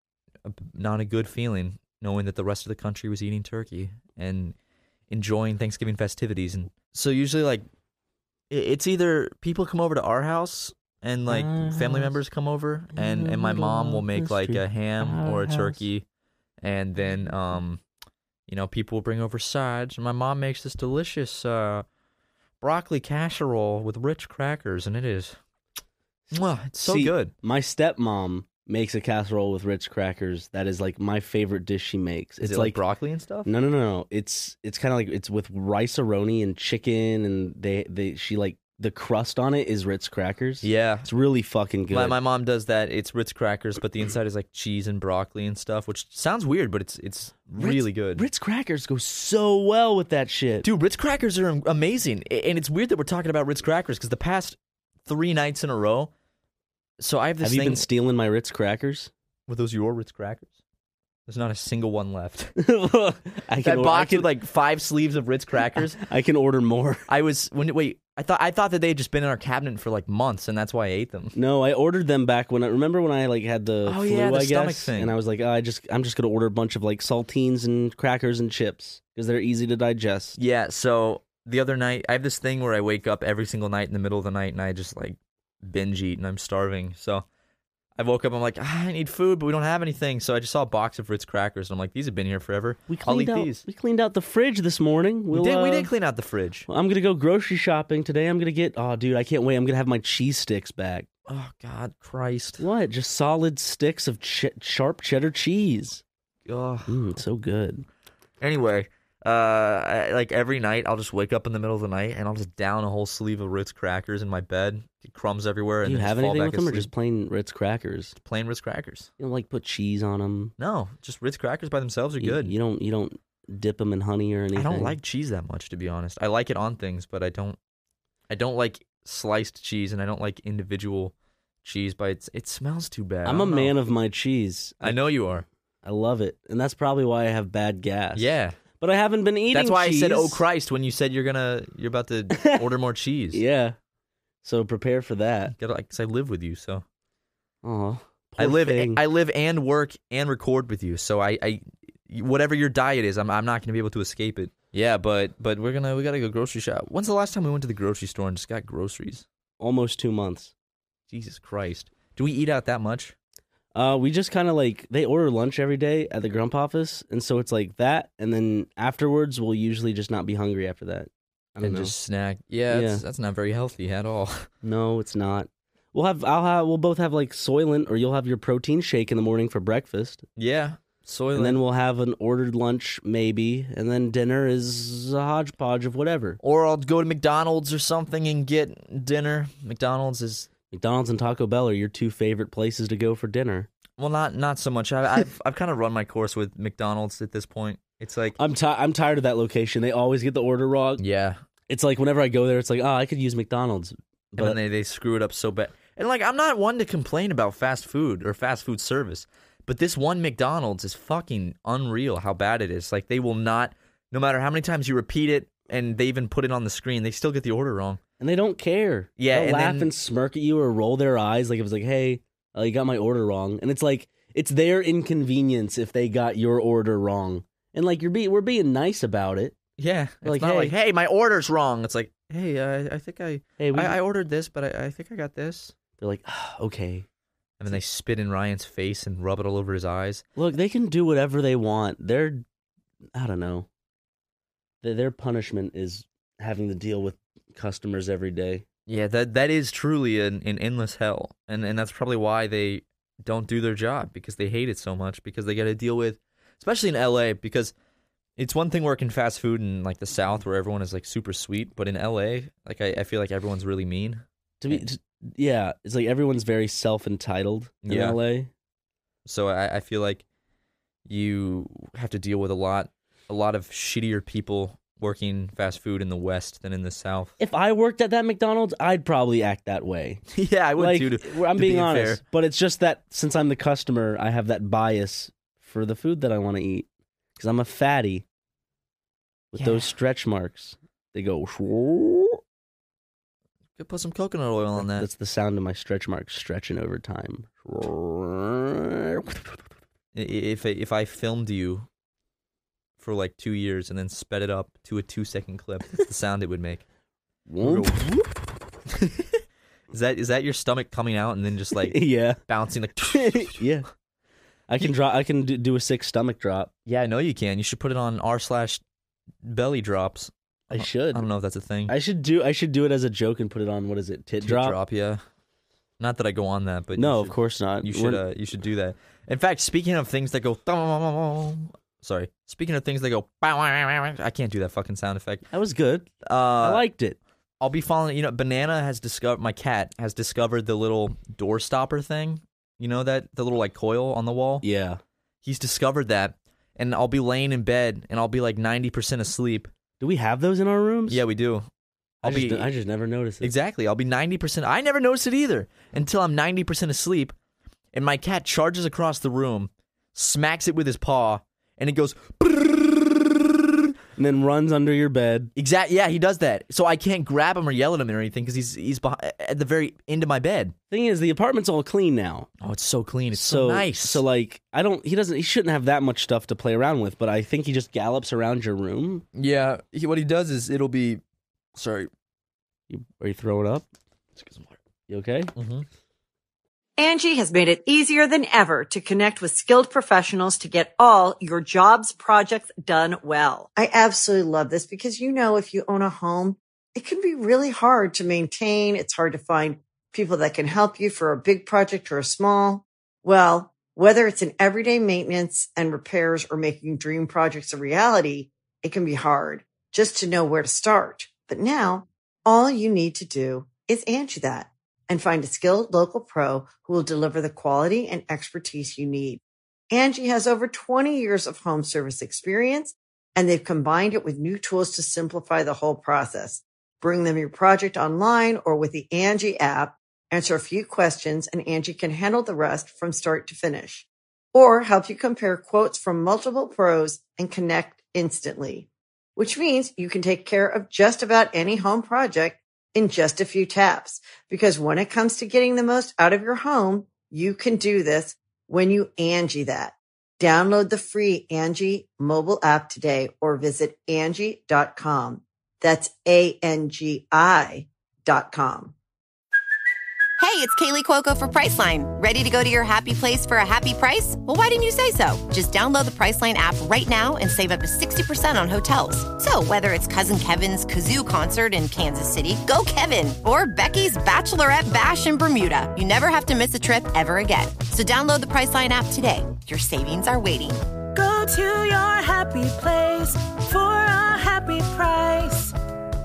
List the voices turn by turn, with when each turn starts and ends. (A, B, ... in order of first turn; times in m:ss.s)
0:00.4-0:04.5 A
0:05.1-0:07.6 A
0:08.5-0:16.0 A
0:11.3-0:12.2 B
0:12.9-0:15.8 B
0:16.6-0:17.8 A
0:18.5-0:21.8 A
0:22.6-0:25.4 A
0:26.3-0:27.3 A
0:26.8-0:32.8 B
0:32.4-0:33.5 A
0:33.4-0:42.2 B
0:40.6-0:41.1 A
0:41.9-0:48.2 A
0:47.6-0:50.7 B
0:50.6-0:56.1 A
0:57.0-0:57.8 A
0:57.4-0:59.1 B
0:59.5-1:00.5 A
1:01.3-1:02.6 A
1:02.6-1:04.3 B
1:03.6-1:06.0 A
1:05.7-1:07.0 B
1:07.1-1:11.3 A
1:11.3-1:20.4 B
1:13.8-1:15.1 A
1:20.4-1:27.2 A
1:28.0-1:33.6 A
1:32.9-1:35.9 B
1:35.3-1:36.7 A
1:36.7-1:41.1 B
1:41.3-1:42.6 A
1:42.6-1:46.0 B
1:46.4-1:47.0 A
1:46.9-1:47.8 B
1:48.4-1:56.9 A
1:55.8-1:58.2 B
1:58.2-1:59.1 A
1:59.2-2:00.5 B
2:00.6-2:02.5 A
2:02.2-2:05.0 B
2:04.5-2:07.6 A
2:08.3-2:11.1 A
2:11.6-2:13.7 A
2:13.2-2:15.0 B
2:14.8-2:15.4 A
2:15.8-2:20.4 B
2:18.1-2:18.6 A
2:19.5-2:23.4 A
2:22.3-2:22.7 B
2:23.3-2:23.8 B
2:24.4-2:25.5 B
2:25.6-2:26.8 A
2:27.6-2:29.0 B
2:28.4-2:39.2 A
2:39.6-2:40.5 B
2:41.1-2:43.1 A
2:43.7-2:51.9 B
2:51.6-2:54.5 A
2:52.7-2:53.0 B
2:54.6-3:00.2 B
3:00.4-3:01.6 A
3:01.3-3:06.4 B
3:06.4-3:10.5 A
3:10.7-3:13.7 B
3:14.0-3:18.4 A
3:18.4-3:21.0 B
3:21.0-3:21.4 A
3:21.7-3:24.6 B
3:24.4-3:38.0 A
3:38.2-3:49.6 B
3:39.2-3:39.9 A
3:49.8-3:55.8 A
3:50.2-3:50.7 B
3:53.6-3:54.0 B
3:56.0-3:57.0 B
3:57.6-4:00.2 A
4:00.4-4:02.4 B
4:03.1-4:03.7 B
4:04.8-4:08.6 B
4:08.9-4:17.7 A
4:18.4-4:24.8 A
4:24.6-4:28.5 B
4:27.8-4:28.2 A
4:29.2-4:30.2 A
4:31.0-4:37.3 A
4:37.4-4:40.2 B
4:40.3-4:42.2 A
4:40.8-4:48.2 B
4:49.5-4:52.4 B
4:49.6-4:49.9 A
4:53.8-4:55.1 A
4:54.8-4:59.6 B
5:00.1-5:01.9 A
5:03.0-5:06.8 A
5:07.5-5:08.4 B
5:07.6-5:08.1 A
5:08.9-5:09.4 A
5:09.9-5:13.6 A
5:11.8-5:12.4 B
5:13.1-5:13.9 B
5:14.7-5:16.7 B
5:16.9-5:18.8 A
5:19.4-5:21.9 A
5:20.7-5:21.2 B
5:21.9-5:24.8 B
5:24.4-5:25.2 A
5:26.0-5:35.4 A
5:26.9-5:28.2 B
5:35.5-5:37.2 B
5:36.2-5:36.8 A
5:37.6-5:44.6 A
5:44.6-5:45.0 B
5:45.4-5:49.7 A
5:50.0-5:51.2 B
5:51.1-5:51.7 A
5:52.2-5:52.7 A
5:52.2-5:53.5 B
5:53.4-5:57.3 A
5:57.9-6:03.8 A
6:04.2-6:05.5 B
6:05.6-6:10.7 A
6:10.9-6:12.5 B
6:12.6-6:14.2 A
6:13.3-6:19.2 B
6:19.3-6:21.2 A
6:21.7-6:22.1 A
6:22.9-6:23.9 B
6:24.4-6:24.8 A
6:25.1-6:25.5 B
6:25.5-6:25.8 A
6:27.0-7:38.9 C
7:40.4-8:00.8 D
8:01.1-8:05.7 E